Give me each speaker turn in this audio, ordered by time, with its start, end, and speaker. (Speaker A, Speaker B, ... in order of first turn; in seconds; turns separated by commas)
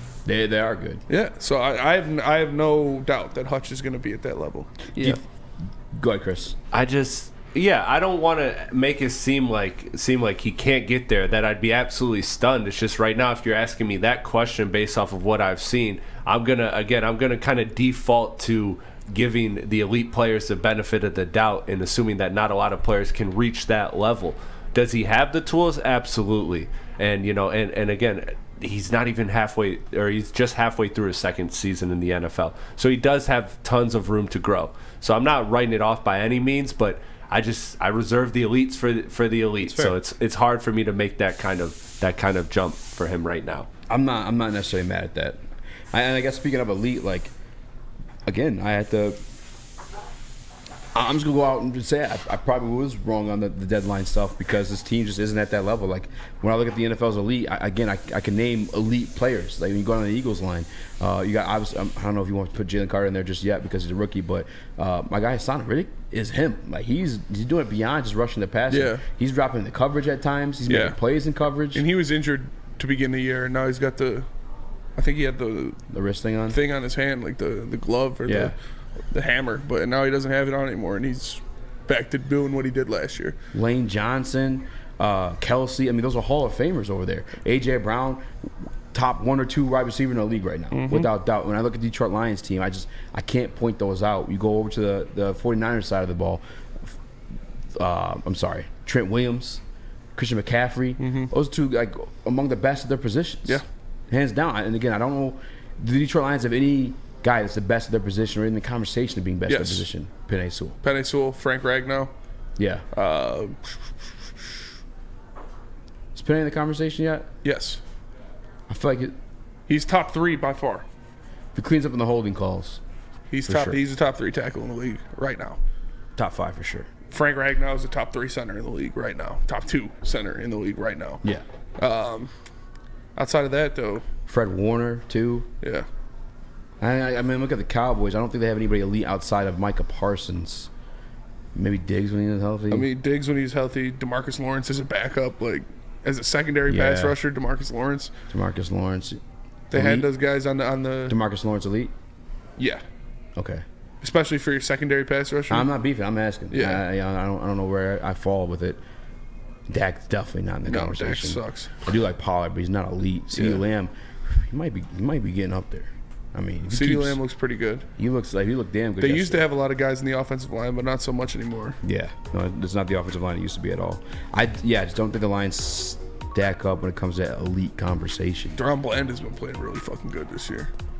Speaker A: 0.2-1.0, Speaker B: 1.1-5.2, Speaker A: 5.0-5.2, Speaker A: 5.9-6.6, Speaker C: 6.7-43.7, Speaker A: 39.6-40.0, Speaker A: 43.9-45.4, Speaker A: 45.9-47.3, Speaker A: 48.3-49.2, Speaker A: 50.9-71.8, Speaker B: 68.7-69.0, Speaker B: 70.7-71.0, Speaker B: 71.7-74.3, Speaker B: 75.0-75.8, Speaker A: 75.9-76.6, Speaker B: 76.5-78.6, Speaker A: 78.3-78.5, Speaker B: 79.1-83.3, Speaker A: 83.5-88.3, Speaker A: 88.9-97.0, Speaker B: 90.7-91.1, Speaker A: 97.8-99.6, Speaker A: 100.2-110.8, Speaker B: 101.0-101.3, Speaker B: 109.5-109.9, Speaker B: 110.8-112.1, Speaker A: 112.6-112.8, Speaker B: 112.9-113.8, Speaker A: 116.2-117.3, Speaker B: 117.4-117.8, Speaker A: 118.7-119.2, Speaker B: 119.7-120.8, Speaker A: 121.5-122.8, Speaker B: 123.3-125.6, Speaker A: 123.5-123.8, Speaker A: 126.2-126.9, Speaker B: 127.1-131.2, Speaker B: 131.8-132.3, Speaker B: 133.2-134.0, Speaker A: 134.3-135.5, Speaker B: 135.6-135.8, Speaker A: 136.8-140.7, Speaker A: 141.6-142.9, Speaker B: 142.7-148.1, Speaker A: 146.7-147.2, Speaker A: 148.3-149.2, Speaker B: 149.7-151.2, Speaker A: 149.7-150.1, Speaker A: 151.1-151.9, Speaker B: 152.6-152.8, Speaker A: 153.3-153.6, Speaker B: 154.0-155.7, Speaker A: 155.5-158.8, Speaker B: 156.5-156.8, Speaker A: 159.7-167.2, Speaker B: 160.7-161.8, Speaker B: 163.3-163.6, Speaker B: 166.7-167.8, Speaker A: 168.0-169.5, Speaker B: 169.0-171.8, Speaker A: 171.8-178.6, Speaker B: 178.6-180.7